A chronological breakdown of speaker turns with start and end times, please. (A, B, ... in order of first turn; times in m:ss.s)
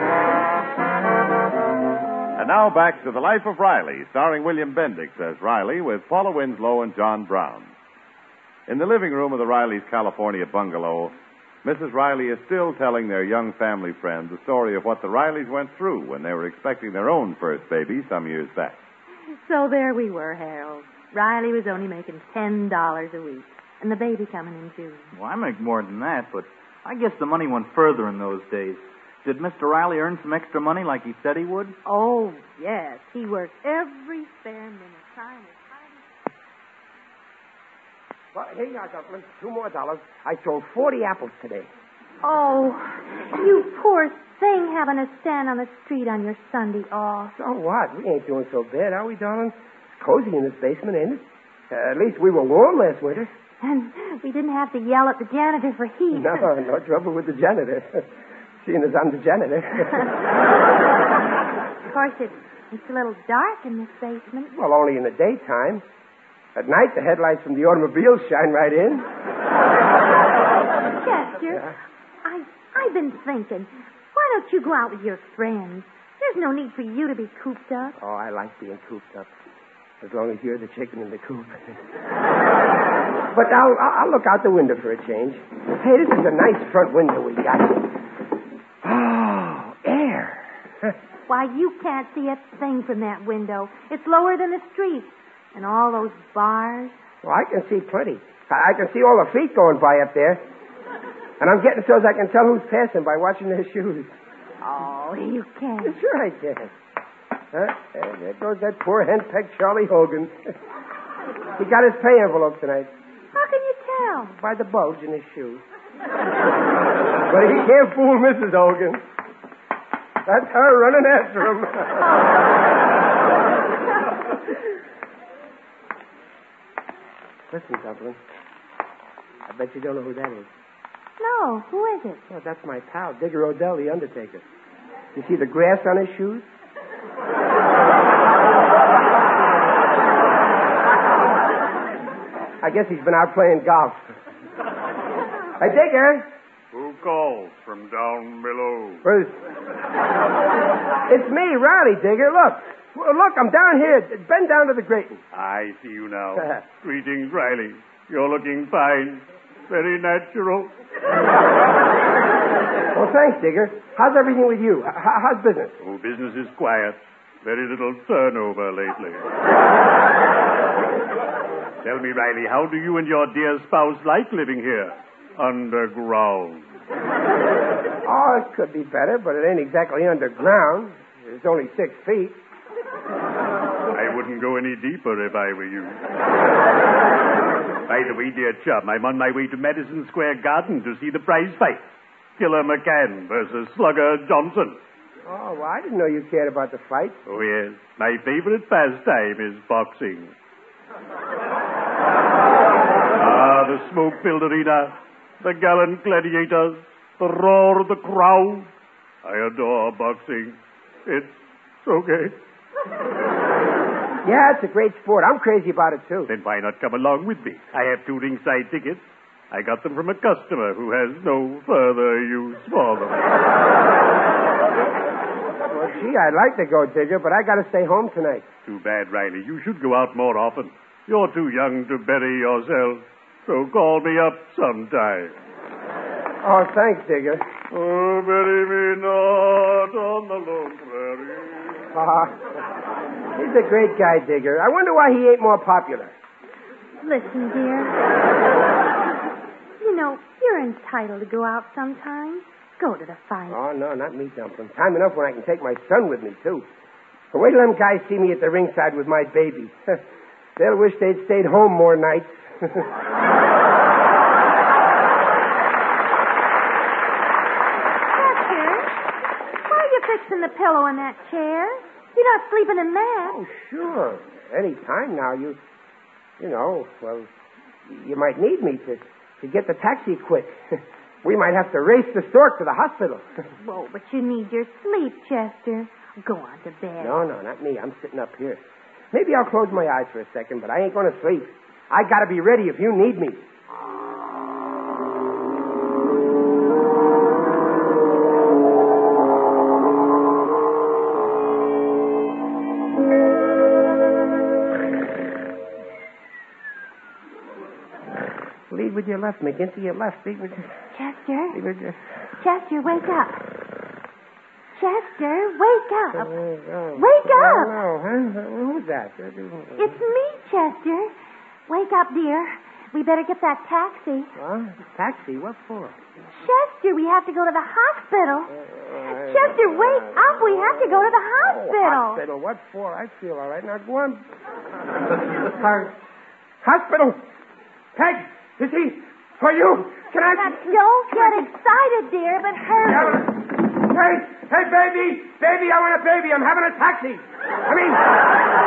0:02.4-0:07.7 A
0:08.7-0:18.8 A
0:19.4-0:25.1 B
0:25.1-0:31.8 C
0:31.8-0:36.0 B
0:38.3-0:41.7 D
0:42.2-0:47.3 B
0:47.3-0:53.3 D
0:53.6-0:56.5 B
0:56.1-0:58.1 D
0:58.6-1:00.1 D
1:01.9-1:04.5 B
1:04.5-1:05.8 D
1:06.5-1:09.1 D
1:10.9-1:11.7 B
1:12.2-1:18.0 B
1:18.0-1:19.3 D
1:20.0-1:21.8 D
1:23.3-1:27.9 D
1:28.8-1:30.9 D
1:31.3-1:37.0 B
1:37.2-1:40.4 D
1:41.4-1:44.1 D
1:44.6-1:46.0 B
1:45.8-1:46.7 D
1:47.5-1:50.5 D
1:51.6-1:52.9 D
1:53.3-1:54.3 B
1:54.3-1:55.6 D
1:57.3-1:59.0 D
2:00.2-2:02.2 D
2:07.5-2:08.2 D
2:09.4-2:10.5 D
2:11.2-2:12.2 B
2:12.3-2:14.4 D
2:15.1-2:16.5 D
2:22.6-2:24.0 D
2:25.6-2:26.3 D
2:26.7-2:29.0 E
2:29.0-2:29.4 D
2:31.1-2:35.2 D
2:35.3-2:40.7 E
2:42.9-2:45.8 D
2:45.8-2:49.2 E
2:51.8-2:56.6 E
2:58.0-3:02.4 D
3:03.9-3:06.0 E
3:07.9-3:14.8 E
3:15.2-3:17.2 D
3:17.2-3:20.3 E
3:23.1-3:28.7 E
3:29.2-3:32.4 E
3:34.2-3:36.3 D
3:36.3-3:43.2 E
3:45.7-3:48.4 D
3:48.6-3:55.4 E
3:56.4-3:57.5 D
3:57.7-4:01.8 E
4:01.9-4:02.4 D
4:03.3-4:06.1 D
4:07.0-4:08.0 B
4:09.8-4:13.6 B
4:13.5-4:16.6 D
4:17.3-4:20.0 D
4:20.6-4:22.9 D
4:28.1-4:29.0 B
4:29.6-4:33.4 B
4:33.2-4:35.6 D
4:36.4-4:37.3 D
4:37.9-4:43.3 D
4:43.6-4:47.2 B
4:47.0-4:53.4 D
5:08.7-5:10.7 D
5:10.9-5:11.6 B
5:11.5-5:12.0 D
5:12.4-5:13.4 B
5:14.8-5:16.4 B
5:16.1-5:20.0 D
5:17.0-5:17.8 B
5:19.8-5:21.1 B
5:21.7-5:24.3 B
5:24.4-5:26.0 D
5:26.3-5:28.5 B
5:28.5-5:34.2 D
5:29.1-5:32.2 B
5:35.2-5:35.9 D
5:36.6-5:37.2 D
5:37.9-5:41.5 D
5:40.4-5:43.2 B
5:42.8-5:48.1 D